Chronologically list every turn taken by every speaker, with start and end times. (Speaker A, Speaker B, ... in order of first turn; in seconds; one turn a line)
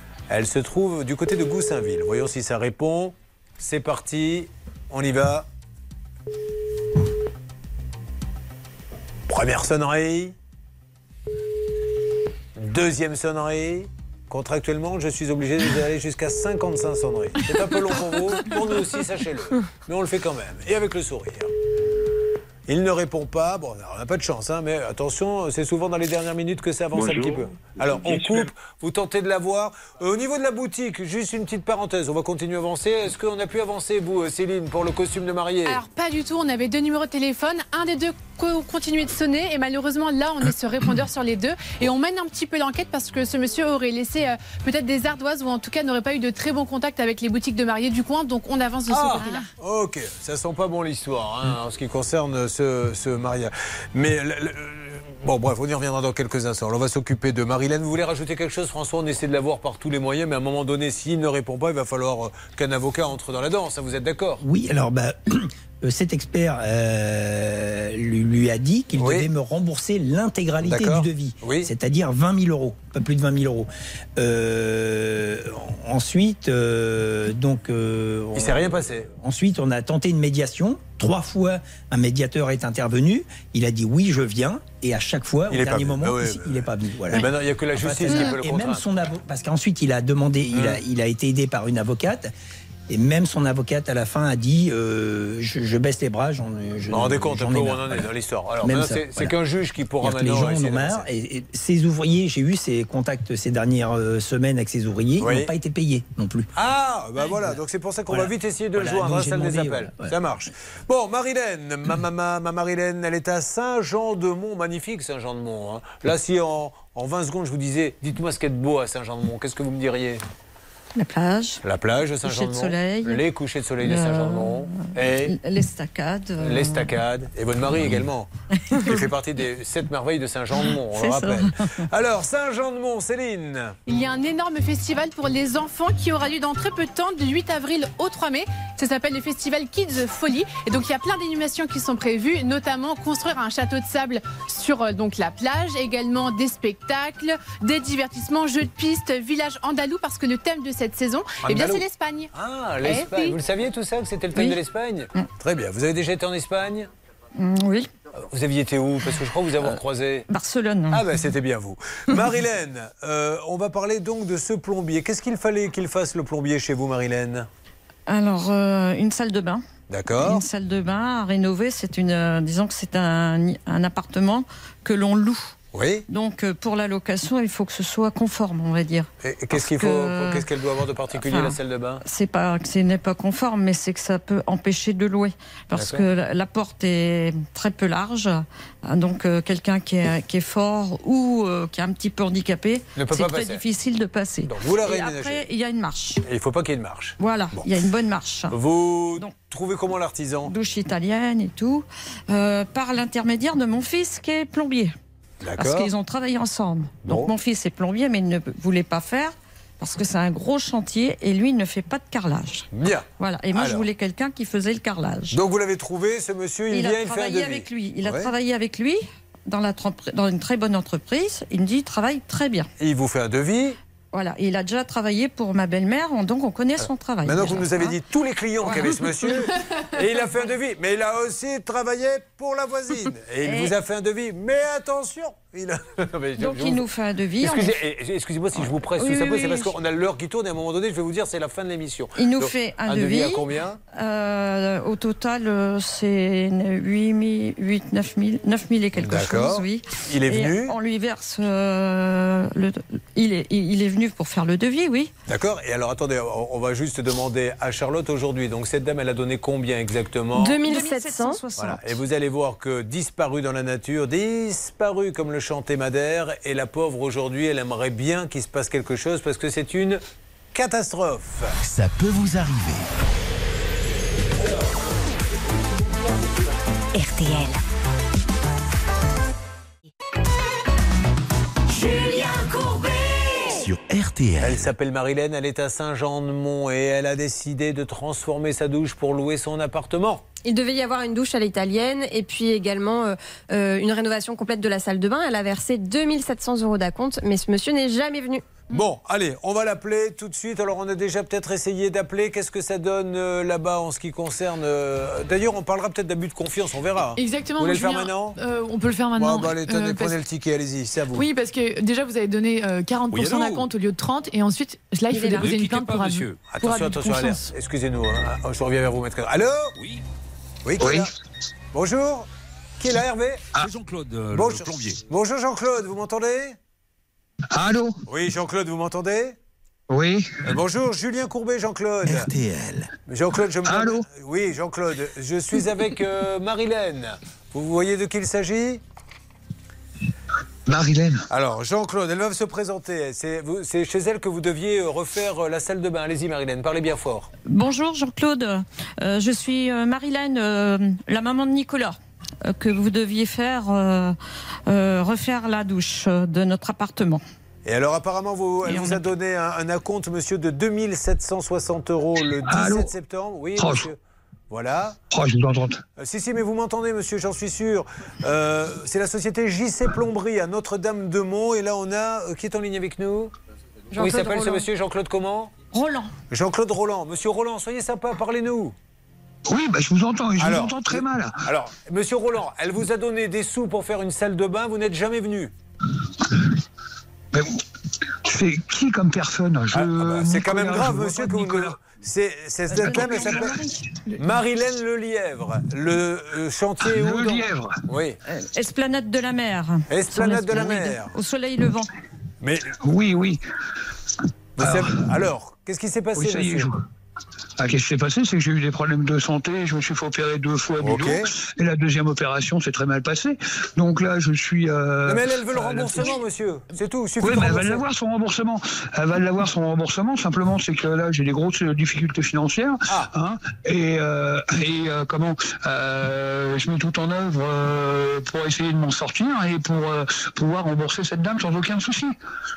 Speaker A: 0.3-5.5
Speaker A: 9.3-10.3
Speaker A: 12.6-21.5
Speaker A: 22.7-35.8
Speaker B: 35.7-49.5
Speaker A: 48.9-64.4
Speaker C: 64.4-92.3
Speaker A: 69.0-69.3
Speaker A: 70.6-71.7
Speaker A: 78.4-79.1
Speaker A: 85.5-88.8
Speaker A: 90.5-90.8
Speaker C: 92.9-98.1
Speaker A: 96.9-101.1
Speaker C: 98.6-99.3
Speaker C: 100.0-106.5
Speaker A: 105.2-105.5
Speaker A: 106.6-120.2
Speaker C: 108.1-110.2
Speaker D: 121.0-121.6
Speaker A: 121.6-125.4
Speaker D: 122.2-123.2
Speaker D: 123.8-126.9
Speaker A: 126.4-133.8
Speaker C: 127.7-128.0
Speaker D: 128.7-129.0
Speaker D: 130.6-131.8
Speaker B: 133.9-152.3
Speaker A: 151.4-151.8
Speaker A: 152.3-156.9
Speaker B: 152.8-153.4
Speaker D: 157.4-157.9
Speaker A: 158.3-160.3
Speaker D: 159.6-161.0
Speaker A: 160.9-167.5
Speaker D: 168.1-169.6
Speaker A: 169.9-170.4
Speaker D: 170.2-175.6
Speaker A: 175.7-176.0
Speaker D: 176.1-180.4
Speaker A: 179.2-182.0
Speaker D: 181.1-196.2
Speaker A: 185.7-186.1
Speaker A: 193.0-193.6
Speaker A: 194.4-195.5
Speaker A: 196.2-197.7
Speaker D: 197.2-198.6
Speaker A: 198.5-200.5
Speaker D: 200.5-204.9
Speaker A: 205.4-205.9
Speaker D: 205.6-212.7
Speaker A: 207.0-207.3
Speaker A: 212.7-213.9
Speaker D: 213.2-215.4
Speaker A: 215.3-218.3
Speaker D: 216.7-222.7
Speaker A: 222.8-223.8
Speaker D: 224.1-228.0
Speaker A: 227.2-236.9
Speaker D: 233.4-233.7
Speaker D: 236.4-237.8
Speaker A: 237.4-243.8
Speaker D: 239.0-239.7
Speaker D: 242.2-255.1
Speaker A: 249.0-250.8
Speaker A: 255.3-260.6
Speaker E: 260.4-261.4
Speaker D: 260.6-262.0
Speaker A: 261.6-270.0
Speaker A: 270.5-271.6
Speaker F: 271.6-272.9
Speaker G: 276.9-277.6
Speaker G: 281.7-283.6
Speaker F: 283.6-284.7
Speaker A: 284.4-290.2
Speaker E: 290.4-298.4
Speaker A: 298.7-308.4
Speaker H: 307.2-310.2
Speaker A: 309.2-311.2
Speaker H: 311.1-317.4
Speaker I: 313.1-313.7
Speaker I: 315.1-316.5
Speaker A: 316.4-319.8
Speaker A: 320.6-321.1
Speaker J: 320.8-321.1
Speaker A: 321.7-322.3
Speaker A: 322.8-323.4
Speaker I: 323.6-325.0
Speaker A: 324.3-326.6
Speaker J: 327.5-328.0
Speaker A: 328.1-329.4
Speaker J: 329.9-330.5
Speaker A: 330.5-332.3
Speaker F: 332.1-332.9
Speaker A: 333.1-338.8
Speaker J: 333.6-334.1
Speaker J: 340.7-341.3
Speaker A: 341.3-347.3
Speaker D: 347.5-357.2
Speaker A: 357.6-364.0
Speaker D: 358.6-359.0
Speaker J: 362.5-362.9
Speaker J: 363.6-363.9
Speaker A: 364.5-365.0
Speaker J: 365.1-365.8
Speaker A: 366.0-373.3
Speaker E: 373.9-374.6
Speaker A: 373.9-375.6
Speaker D: 375.7-376.1
Speaker A: 376.3-378.8
Speaker J: 379.5-381.5
Speaker A: 380.4-385.5
Speaker J: 387.3-387.6
Speaker J: 388.2-391.8
Speaker A: 389.7-393.6
Speaker J: 392.7-393.6
Speaker A: 394.1-398.2
Speaker J: 396.8-397.7
Speaker D: 398.3-401.9
Speaker A: 399.9-401.2
Speaker A: 402.4-402.7
Speaker J: 402.8-403.4
Speaker A: 404.6-406.7
Speaker J: 404.6-405.1
Speaker J: 406.1-406.8
Speaker J: 407.6-416.2
Speaker A: 410.8-411.3
Speaker A: 415.1-417.8
Speaker J: 417.2-432.1